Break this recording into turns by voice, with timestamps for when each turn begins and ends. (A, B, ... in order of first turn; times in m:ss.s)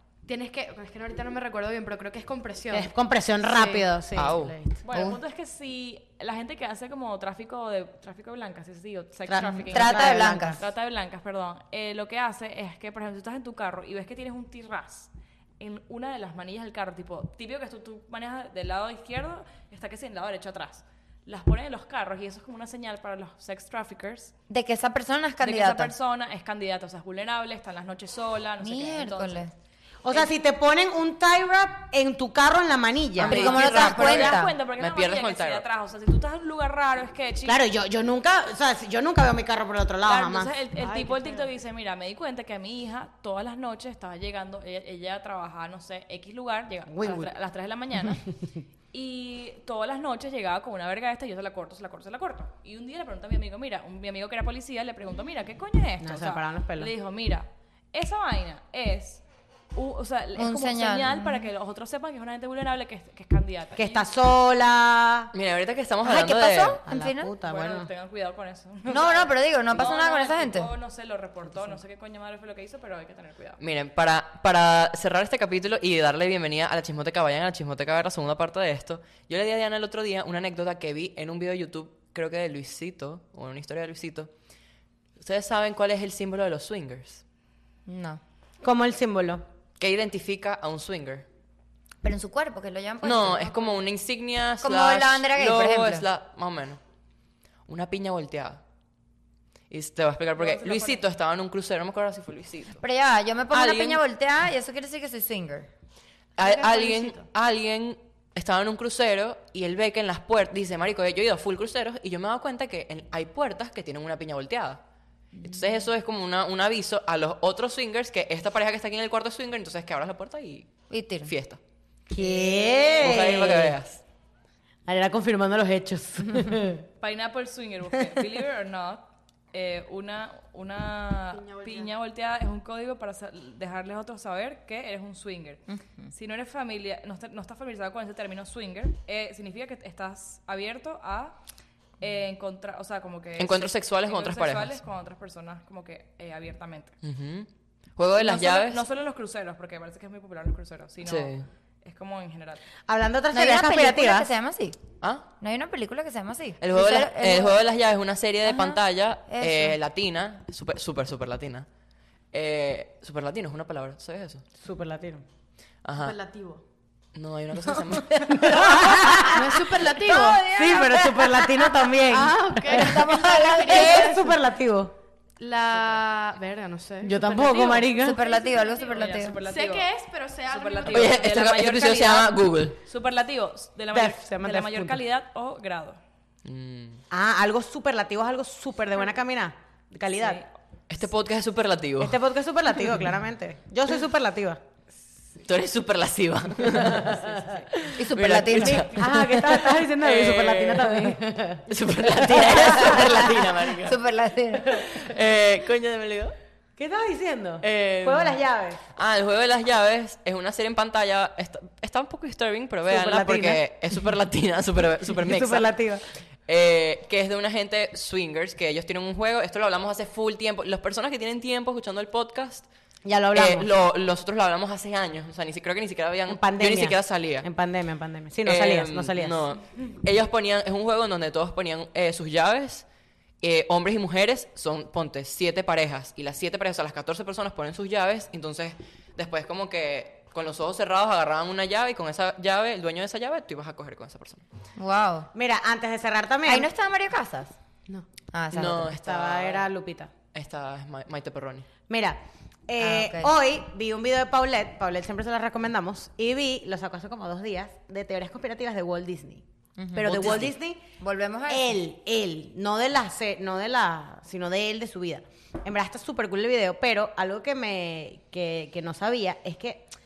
0:00.2-0:02.9 A
0:02.7-0:04.8 B
0:03.4-0:03.9 A
0:04.1-0:04.6 C
0:04.8-0:24.3 D
0:04.9-0:05.2 E
0:09.3-0:10.6 B
0:09.4-0:10.6 E
0:24.5-0:25.9 E
0:25.4-0:29.5 D
0:28.6-0:29.5 E
0:30.0-0:33.5 B
0:33.2-0:34.5 E
0:33.2-0:35.6 C
0:33.3-0:37.6 D
0:37.4-0:40.5 B
0:40.0-0:48.3 D
0:40.8-0:41.5 A
0:46.9-0:47.3 B
0:48.9-0:59.2 D
0:56.0-0:56.9 B
0:59.7-1:04.0 D
1:00.4-1:01.4 E
1:03.8-1:05.3 B
1:05.3-1:06.8 C
1:06.0-1:07.3 E
1:06.8-1:07.9 B
1:07.4-1:13.6 D
1:08.9-1:10.7 E
1:13.6-1:24.3 C
1:25.2-1:27.2 C
1:27.8-1:28.2 E
1:28.6-1:29.4 B
1:29.8-1:31.2 C
1:32.0-1:33.5 E
1:33.0-1:36.8 C
1:34.6-1:36.0 E
1:37.6-1:38.6 C
1:39.7-1:42.8 C
1:40.3-1:41.0 D
1:42.8-1:45.7 E
1:43.5-1:44.0 C
1:46.4-1:54.8 C
1:46.4-1:47.2 A
1:55.4-2:00.7 C
2:00.9-2:01.3 E
2:01.2-2:01.6 C
2:02.1-2:03.8 B
2:02.2-2:02.9 D
2:03.0-2:04.0 C
2:04.8-2:06.8 B
2:07.0-2:21.4 D
2:11.3-2:11.9 A
2:22.0-2:26.9 D
2:23.4-2:24.8 C
2:27.0-2:28.8 C
2:28.2-2:32.7 D
2:31.0-2:31.4 C
2:32.9-2:34.3 B
2:33.3-2:34.8 E
2:35.4-2:37.6 E
2:36.6-2:41.7 C
2:38.4-2:39.8 E
2:42.3-2:44.4 C
2:44.6-2:45.2 B
2:45.8-2:46.1 C
2:46.0-2:46.6 A
2:47.1-2:48.3 C
2:48.3-2:49.9 B
2:48.3-2:49.3 E
2:49.3-2:50.5 A
2:50.0-2:51.8 E
2:50.4-2:54.9 B
2:52.1-2:54.3 A
2:52.7-2:54.2 E
2:55.4-2:58.6 A
2:55.7-2:56.0 D
2:57.0-2:58.2 B
2:58.0-2:59.4 E
2:58.2-2:59.9 D
2:59.3-3:01.2 A
3:00.5-3:06.0 D
3:00.9-3:02.8 C
3:03.9-3:05.0 B
3:06.4-3:07.0 C
3:07.1-3:10.4 B
3:10.9-3:12.2 C
3:12.0-3:14.6 B
3:15.4-3:17.2 C
3:16.8-3:17.5 B
3:17.2-3:17.6 D
3:17.7-3:24.0 C
3:17.9-3:19.4 E
3:18.5-3:21.7 B
3:22.2-3:23.0 B
3:22.4-3:24.9 E
3:24.6-3:26.3 C
3:26.8-3:28.8 B
3:27.6-3:28.4 C
3:29.0-3:35.7 C
3:32.9-3:33.6 B
3:35.2-3:36.0 B
3:36.5-3:42.7 C
3:43.0-3:43.7 B
3:43.3-3:47.4 C
3:46.3-3:49.4 B
3:48.4-3:52.8 C
3:53.4-4:04.4 C
4:04.8-4:05.3 E
4:05.3-4:06.7 B
4:06.4-4:07.5 E
4:08.3-4:08.9 E
4:08.5-4:09.7 C
4:09.0-4:10.1 B
4:10.3-4:11.7 C
4:11.9-4:19.4 B
4:12.8-4:13.3 E
4:19.8-4:21.8 E
4:19.9-4:20.8 B
4:20.0-4:20.5 C
4:21.5-4:29.9 B